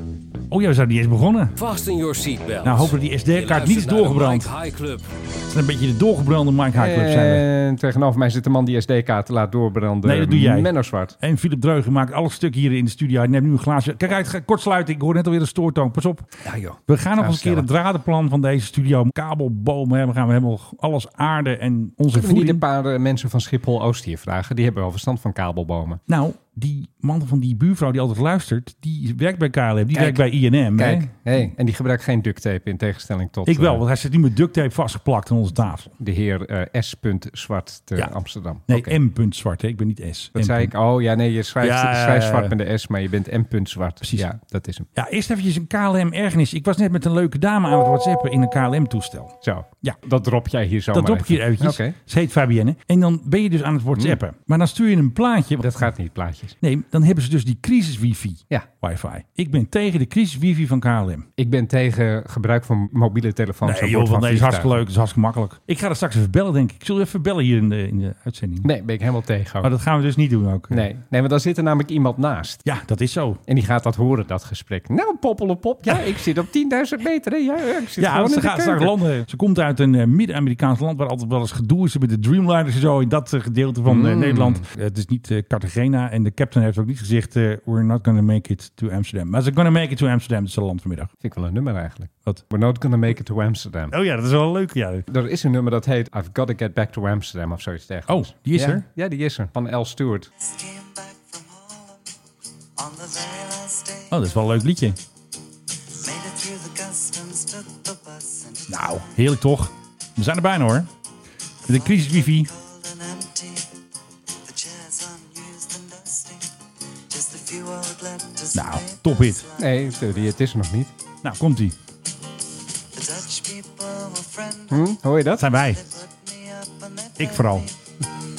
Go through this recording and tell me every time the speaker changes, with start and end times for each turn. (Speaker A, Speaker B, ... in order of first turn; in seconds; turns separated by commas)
Speaker A: 0.5-1.6, Speaker B: 1.6-5.1, Speaker A: 2.6-4.5, Speaker A: 5.5-7.5, Speaker C: 6.8-11.2, Speaker A: 10.0-16.3, Speaker C: 16.4-17.7, Speaker A: 16.9-22.6, Speaker C: 22.1-26.0, Speaker A: 26.1-31.4, Speaker C: 29.9-33.8, Speaker A: 33.5-35.9, Speaker C: 36.0-39.0, Speaker A: 38.7-40.7, Speaker C: 40.4-44.9, Speaker A: 41.6-42.5, Speaker A: 45.0-50.0, Speaker C: 49.4-52.0, Speaker A: 50.9-55.9, Speaker C: 55.6-56.6, Speaker A: 56.6-61.3, Speaker C: 61.4-64.8, Speaker A: 63.6-68.7, Speaker C: 68.6-69.7, Speaker A: 69.6-70.9, Speaker C: 70.7-72.6, Speaker A: 72.7-73.4, Speaker C: 73.5-79.0, Speaker A: 75.9-76.2, Speaker A: 78.0-91.1, Speaker C: 83.9-84.7, Speaker C: 91.2-93.9, Speaker A: 93.9-95.0, Speaker C: 95.1-100.3, Speaker A: 98.1-98.8, Speaker D: 100.4-102.0, Speaker D: 102.8-104.5, Speaker A: 104.1-105.0, Speaker D: 106.0-109.2, Speaker A: 108.7-110.9, Speaker D: 111.7-113.7, Speaker A: 111.7-112.5, Speaker D: 114.5-116.5, Speaker D: 117.1-120.3, Speaker A: 118.5-119.5, Speaker C: 119.6-120.9, Speaker A: 121.2-121.8, Speaker D: 123.0-128.1, Speaker C: 124.7-125.5, Speaker A: 125.4-125.8, Speaker A: 127.2-127.7